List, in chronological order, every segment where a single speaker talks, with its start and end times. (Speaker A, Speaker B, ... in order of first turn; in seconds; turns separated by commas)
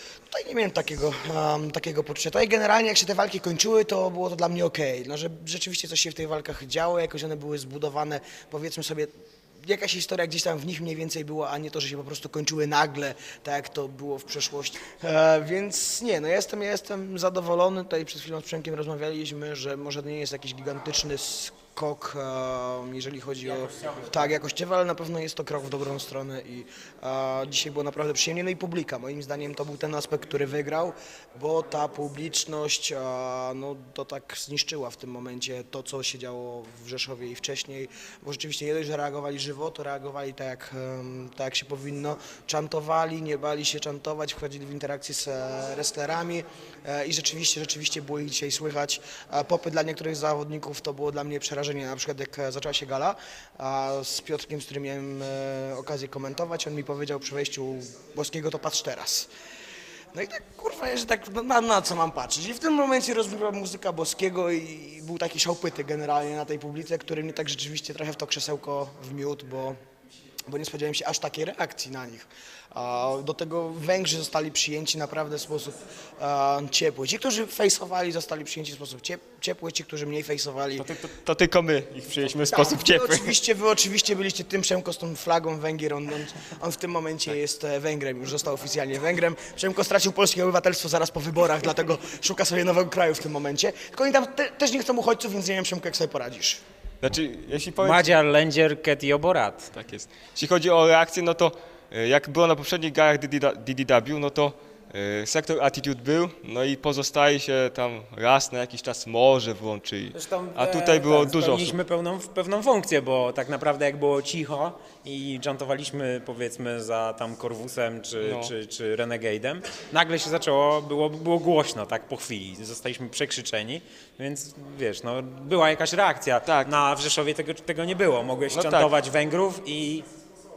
Speaker A: 0.3-59.3, Speaker B: 23.4-24.3, Speaker A: 60.1-69.8, Speaker A: 70.5-80.9, Speaker C: 80.8-83.3, Speaker A: 82.5-96.6, Speaker C: 97.0-98.1, Speaker B: 97.8-99.7, Speaker C: 99.7-111.8, Speaker B: 110.1-130.1, Speaker C: 118.2-118.5, Speaker C: 128.5-128.9